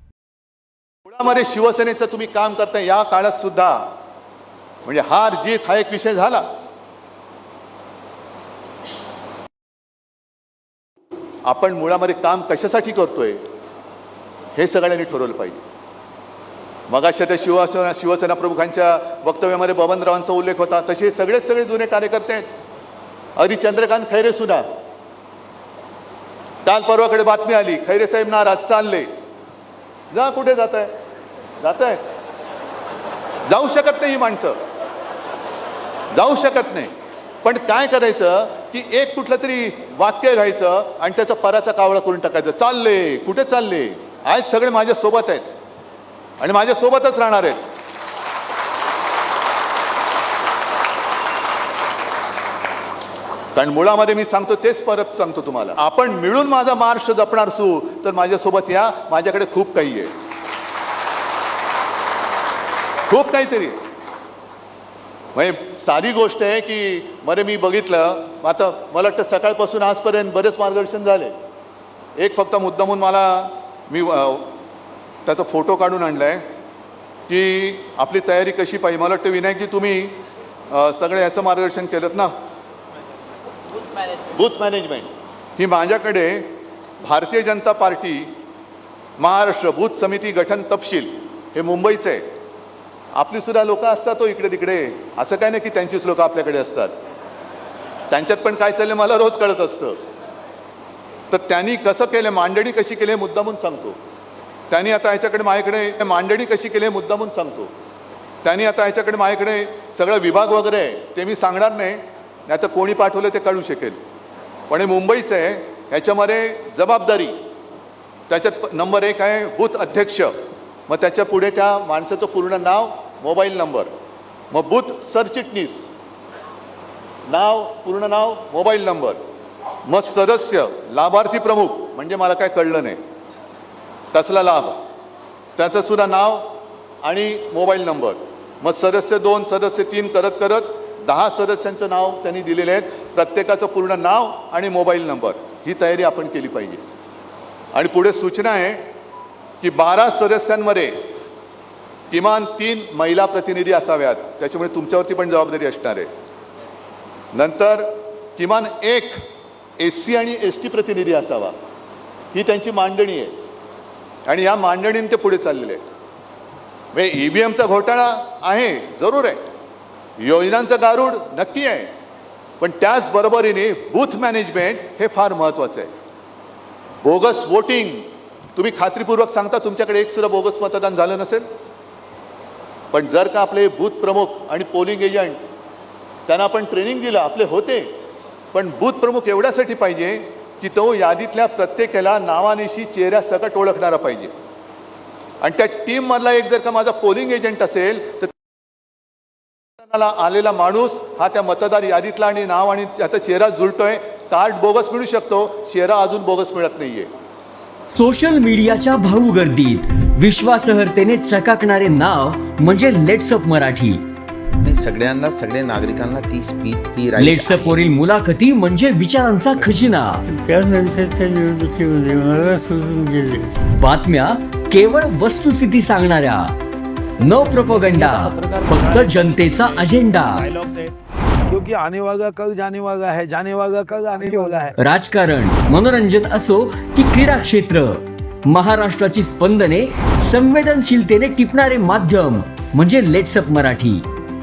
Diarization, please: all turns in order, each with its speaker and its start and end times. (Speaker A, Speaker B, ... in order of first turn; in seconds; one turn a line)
Speaker A: 1.1-3.8
Speaker A: 4.8-6.5
Speaker A: 11.4-13.4
Speaker A: 14.6-15.6
Speaker A: 16.9-22.4
Speaker A: 23.4-24.6
Speaker A: 26.6-29.1
Speaker A: 30.1-30.9
Speaker A: 31.6-32.0
Speaker A: 33.5-34.6
Speaker A: 36.1-36.9
Speaker A: 37.4-45.5
Speaker A: 46.4-47.6
Speaker A: 53.5-60.1
Speaker A: 63.1-63.8
Speaker A: 65.3-71.3
Speaker A: 72.2-74.5
Speaker A: 75.3-76.4
Speaker A: 77.3-80.2
Speaker A: 80.7-82.3
Speaker A: 84.3-86.5
Speaker A: 87.0-88.3
Speaker A: 89.2-92.2
Speaker A: 93.2-97.0
Speaker A: 98.1-100.0
Speaker A: 101.3-104.0
Speaker A: 104.7-107.7
Speaker A: 108.4-114.0
Speaker A: 114.7-117.3
Speaker A: 118.3-120.3
Speaker A: 120.9-123.9
Speaker A: 124.5-125.9
Speaker A: 127.3-129.2
Speaker A: 129.9-133.0
Speaker A: 134.1-134.8
Speaker A: 135.6-136.5
Speaker A: 137.0-146.8
Speaker A: 147.7-148.8
Speaker A: 149.6-151.0
Speaker A: 152.1-156.1
Speaker A: 157.3-159.2
Speaker A: 159.8-161.5
Speaker A: 162.3-163.4
Speaker A: 164.3-165.8
Speaker A: 166.9-169.4
Speaker A: 170.2-171.9
Speaker A: 172.6-175.9
Speaker A: 177.0-181.4
Speaker A: 182.9-185.4
Speaker A: 186.3-187.9
Speaker A: 188.5-194.3
Speaker A: 195.4-198.3
Speaker A: 199.8-207.1
Speaker B: 207.9-214.0
Speaker C: 214.7-217.8
Speaker B: 217.2-220.2
Speaker D: 220.3-223.5
Speaker B: 223.8-226.5
Speaker B: 227.2-230.5
Speaker E: 227.4-230.9
Speaker C: 227.8-228.6
Speaker E: 231.5-234.7
Speaker C: 231.8-234.4
Speaker B: 234.8-244.0